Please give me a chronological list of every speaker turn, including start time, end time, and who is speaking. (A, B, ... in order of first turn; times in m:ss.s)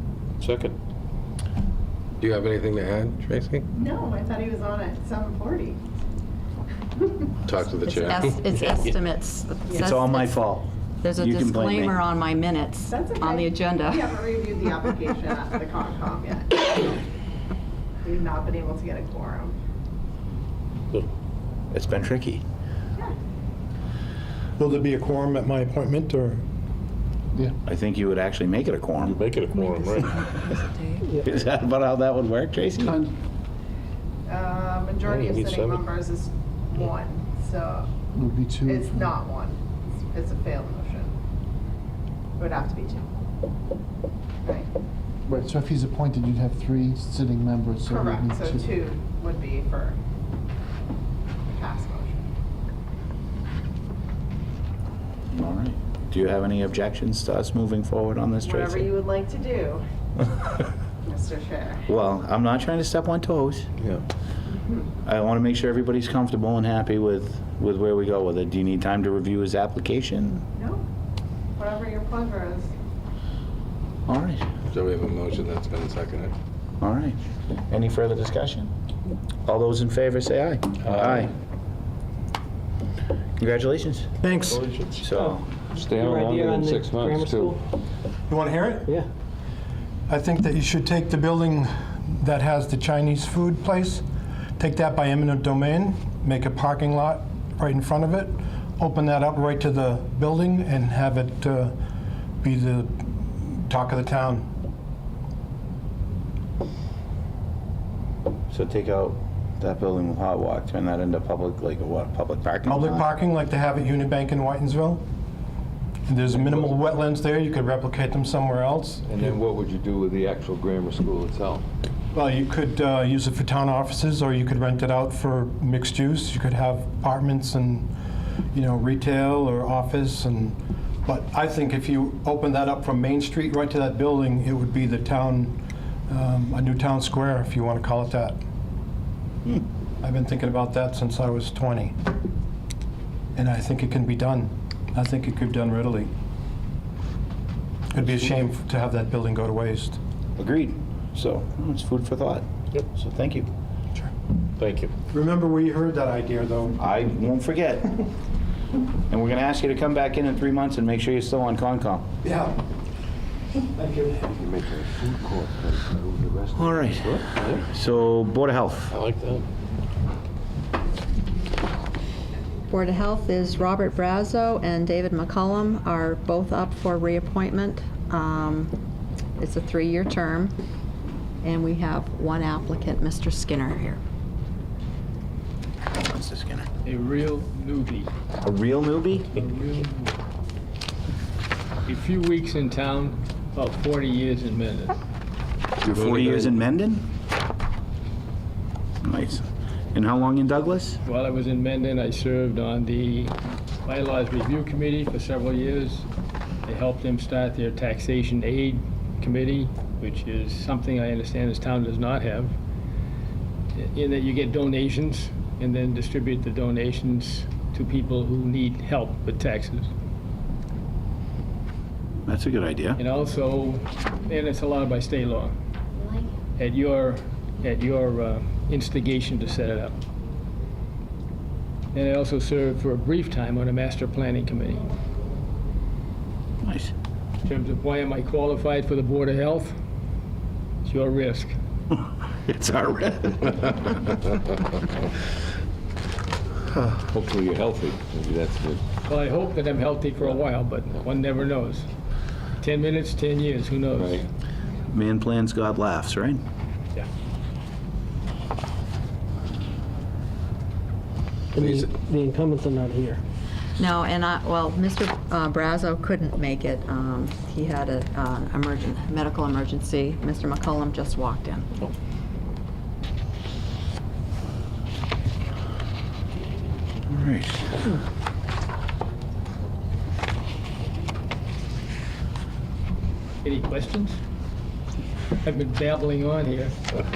0:00.4-0:00.7 A
0:02.2-0:03.6 B
0:03.8-0:05.8 C
0:07.5-0:08.4 B
0:07.8-0:10.5 D
0:09.8-0:12.0 E
0:11.0-0:14.2 D
0:12.9-0:17.0 C
0:18.0-0:19.6 C
0:21.7-0:22.4 E
0:24.6-0:26.4 F
0:27.7-0:29.2 E
0:29.1-0:30.2 A
0:31.2-0:33.0 E
0:34.3-0:37.9 C
0:35.1-0:35.8 A
0:38.1-0:39.2 G
0:38.6-0:41.1 C
0:42.4-0:43.1 C
0:45.3-0:48.7 G
0:47.9-0:50.0 C
0:51.5-0:52.2 C
0:55.3-0:58.9 E
0:58.4-0:59.8 C
1:01.1-1:01.8 C
1:01.9-1:03.7 E
1:04.5-1:04.8 C
1:05.0-1:10.4 E
1:10.6-1:10.8 C
1:11.6-1:12.7 C
1:14.1-1:14.4 E
1:14.7-1:16.3 B
1:16.8-1:17.2 E
1:17.7-1:18.7 E
1:19.5-1:21.3 E
1:23.4-1:24.1 E
1:24.2-1:24.6 F
1:24.5-1:25.0 A
1:25.0-1:25.4 E
1:25.8-1:27.6 A
1:25.9-1:27.6 H
1:28.3-1:29.0 F
1:30.1-1:34.0 F
1:34.6-1:41.7 F
1:42.4-1:44.5 F
1:48.5-1:53.0 E
1:52.6-1:55.0 F
1:56.1-1:59.2 F
1:56.3-1:56.8 A
1:59.1-2:01.6 A
2:02.1-2:07.9 F
2:08.5-2:18.4 F
2:20.0-2:22.0 F
2:23.4-2:26.1 F
2:27.9-2:30.0 F
2:30.4-2:33.5 E
2:34.6-2:34.9 A
2:35.1-2:36.8 F
2:36.8-2:37.9 E
2:39.1-2:42.1 E
2:42.2-2:42.6 F
2:43.8-2:44.3 F
2:44.3-2:47.6 A
2:46.6-2:49.0 E
2:48.9-2:49.4 A
2:52.7-2:58.7 D
2:59.4-3:00.5 D
3:01.4-3:04.0 D
3:05.9-3:06.7 E
3:06.8-3:08.1 I
3:08.4-3:09.4 E
3:09.2-3:10.1 I
3:11.9-3:15.0 I
3:15.8-3:17.1 E
3:15.9-3:16.5 B
3:19.0-3:21.0 E
3:21.0-3:23.3 I
3:23.9-3:26.0 I
3:26.7-3:32.6 I
3:33.8-3:39.9 I
3:42.3-3:43.0 E
3:43.0-3:45.5 I
3:46.6-3:50.0 I
3:51.9-3:54.8 I
3:56.6-3:56.9 E
3:57.4-3:59.8 I
4:00.8-4:01.5 I
4:02.5-4:04.3 E
4:06.9-4:08.8 A
4:09.0-4:11.9 I
4:12.6-4:14.2 I
4:14.0-4:14.2 A
4:14.9-4:16.4 E
4:21.5-4:23.2 H
4:21.6-4:21.9 B
4:23.8-4:31.7 D
4:37.1-4:37.7 E
4:43.4-4:44.2 I
4:45.4-4:46.8 I